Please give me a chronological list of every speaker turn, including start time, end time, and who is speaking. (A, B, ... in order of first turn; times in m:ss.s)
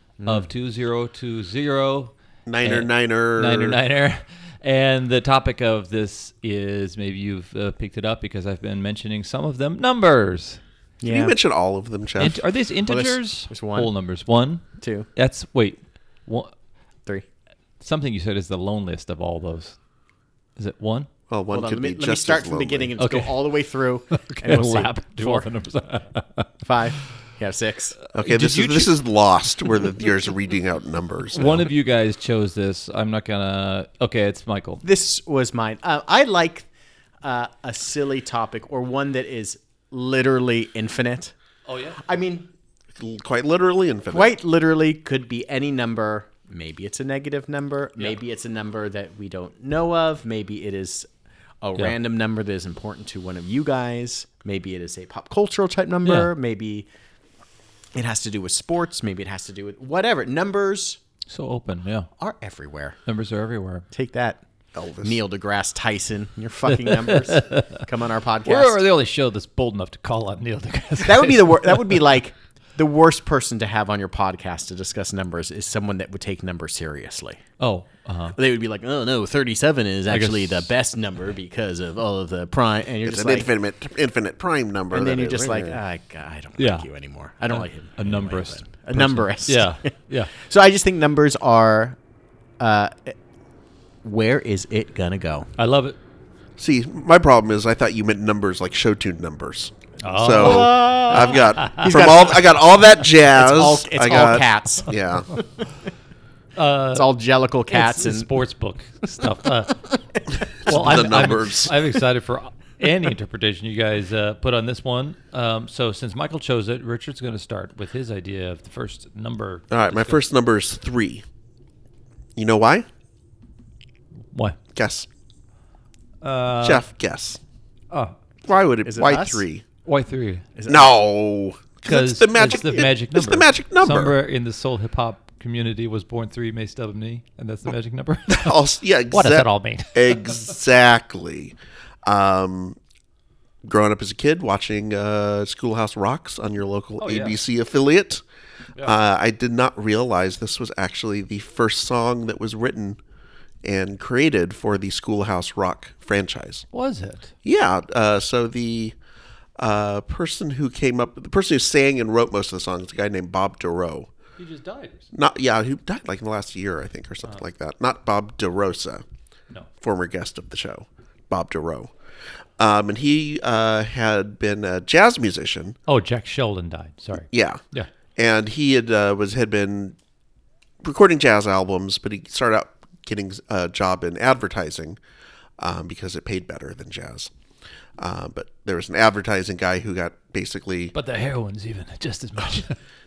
0:00.2-0:00.5 A
0:00.2-0:10.6 B
0:02.4-0:03.8 C
0:11.0-0:11.3 A
0:11.0-0:12.4 C
0:12.2-0:16.5 B
0:12.9-0:13.9 A
0:14.8-0:15.1 A
0:17.8-0:19.8 B
0:20.6-0:21.1 B
0:21.3-0:22.9 C
0:21.5-0:25.4 A
0:23.0-0:23.5 B
0:24.1-0:26.5 B
0:26.6-0:28.0 A
0:28.0-0:28.9 B
0:28.1-0:31.7 C
0:31.3-0:34.8 B
0:34.8-0:36.6 A
0:37.2-0:41.3 A
0:41.7-0:42.0 B
0:42.0-0:42.5 A
0:43.0-0:44.3 C
0:44.1-0:51.1 A
0:51.6-0:56.9 A
0:56.0-0:56.3 B
0:57.9-1:01.0 A
1:01.3-1:02.1 B
1:02.2-1:03.0 A
1:03.1-1:03.8 B
1:03.9-1:04.4 A
1:04.7-1:05.1 C
1:05.0-1:08.8 A
1:06.8-1:07.8 B
1:08.4-1:12.0 B
1:11.0-1:17.4 A
1:17.6-1:18.4 B
1:18.4-1:23.5 A
1:20.1-1:20.7 B
1:23.0-1:25.8 C
1:24.9-1:32.0 A
1:26.6-1:26.8 B
1:27.5-1:30.3 B
1:32.6-1:33.2 A
1:34.0-1:35.5 A
1:35.6-1:36.0 B
1:36.6-1:45.3 C
1:40.0-1:42.0 B
1:40.4-1:42.6 A
1:43.2-1:44.9 A
1:46.6-1:47.1 B
1:46.9-1:48.3 A
1:47.7-1:49.9 B
1:50.6-1:51.7 C
1:50.6-2:00.2 B
1:59.7-2:01.2 C
2:02.4-2:02.9 C
2:04.7-2:05.1 C
2:06.2-2:06.8 B
2:06.6-2:07.4 C
2:08.4-2:09.6 C
2:08.8-2:09.4 A
2:09.8-2:10.4 B
2:10.6-2:10.9 A
2:10.7-2:14.1 C
2:11.8-2:20.5 B
2:12.5-2:12.8 A
2:18.3-2:22.8 C
2:23.6-2:28.2 C
2:27.0-2:27.4 B
2:28.8-2:33.0 C
2:33.6-2:36.6 C
2:36.7-2:37.3 B
2:37.4-2:38.9 C
2:39.6-2:44.1 C
2:44.4-2:45.1 B
2:45.1-2:49.0 C
2:49.8-2:51.9 C
2:52.6-2:55.8 C
2:55.9-2:57.9 B
2:57.3-2:57.6 C
2:58.2-3:00.0 C
3:00.8-3:05.0 C
3:05.6-3:07.3 C
3:08.0-3:10.9 C
3:10.9-3:12.8 B